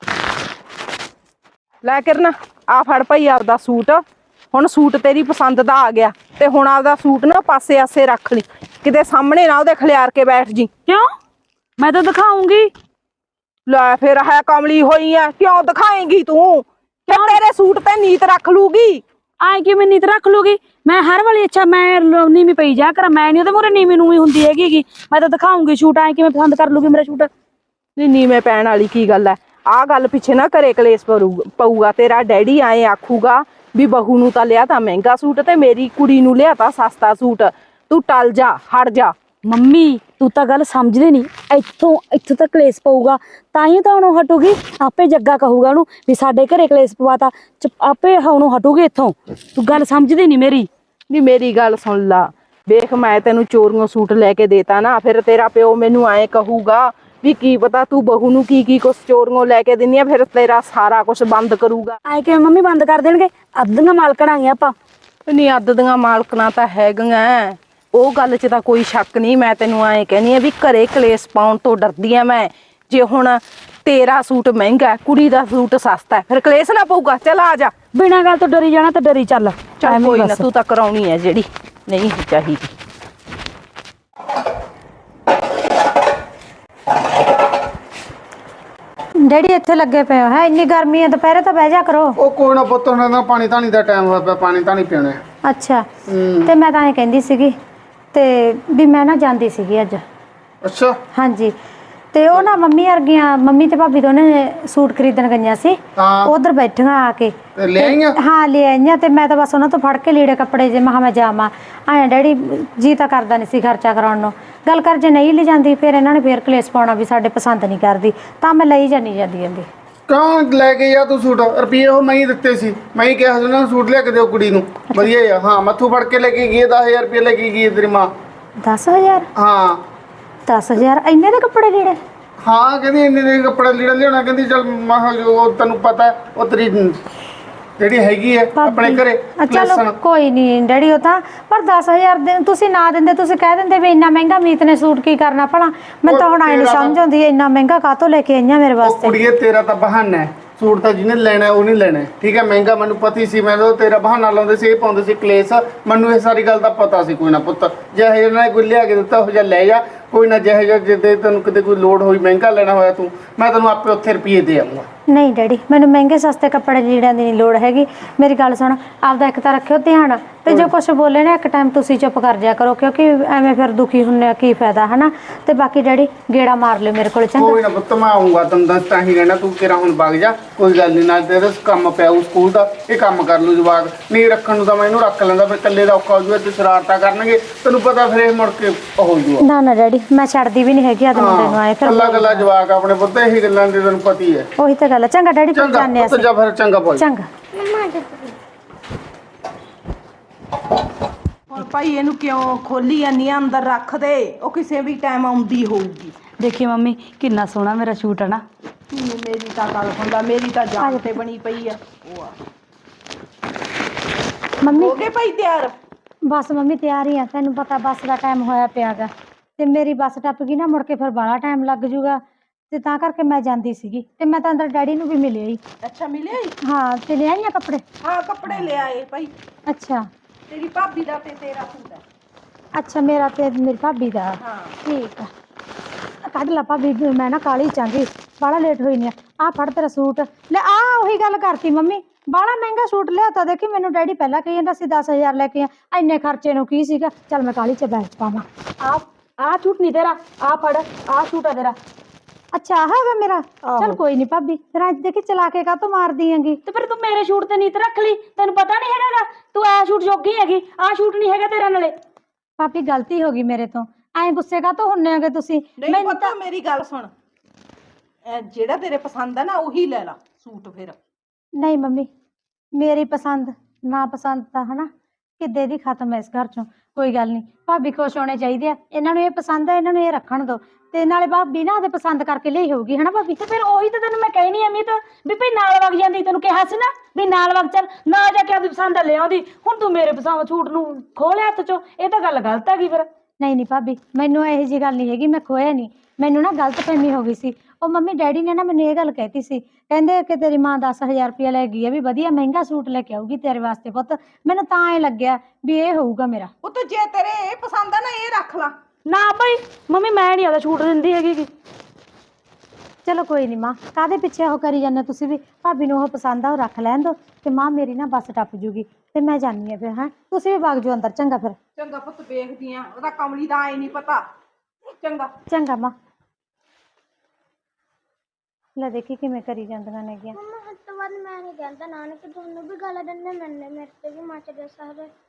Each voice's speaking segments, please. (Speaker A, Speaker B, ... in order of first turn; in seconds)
Speaker A: 1.8-10.7, 13.7-19.0, 28.0-39.1, 51.1-62.0, 65.3-77.7, 79.8-82.7, 201.5-206.2, 208.9-212.3, 214.6-215.7, 225.8-226.6, 228.0-229.3, 230.5-232.0, 234.4-234.8, 265.8-267.1, 268.2-271.0, 306.6-308.7, 321.8-324.2, 325.0-325.3
Speaker B: 11.8-12.7, 17.1-17.4, 19.4-27.3, 39.5-50.7, 62.1-64.7, 77.9-80.5, 206.4-208.4, 248.8-251.8, 253.7-254.0, 256.6-261.9, 283.4-293.1, 309.1-311.5
Speaker C: 89.2-92.2, 95.4-95.9, 96.4-97.5, 98.1-100.0, 101.1-101.5, 102.1-119.7, 128.6-129.3, 130.5-132.0, 138.6-149.2, 165.1-177.6, 189.4-192.5, 194.6-196.3, 196.9-197.3, 210.8-211.1, 214.6-215.0, 216.3-222.2, 222.7-225.6, 226.6-227.8, 229.7-230.1, 232.8-235.3, 236.2-248.4, 252.5-256.6, 262.6-266.3, 271.6-272.1, 272.8-274.9, 275.4-283.4, 293.4-306.5, 313.0-321.6, 325.5-325.9, 328.8-330.4
Speaker D: 92.2-95.2, 96.1-96.5, 100.6-101.0, 106.0-106.3, 107.5-108.2, 120.1-128.1, 129.3-129.8, 132.4-137.0, 137.8-139.9, 146.1-146.9, 148.8-164.9, 170.5-170.7, 177.4-189.4, 191.1-194.5, 195.5-197.0
Speaker E: 197.8-198.3, 330.8-335.1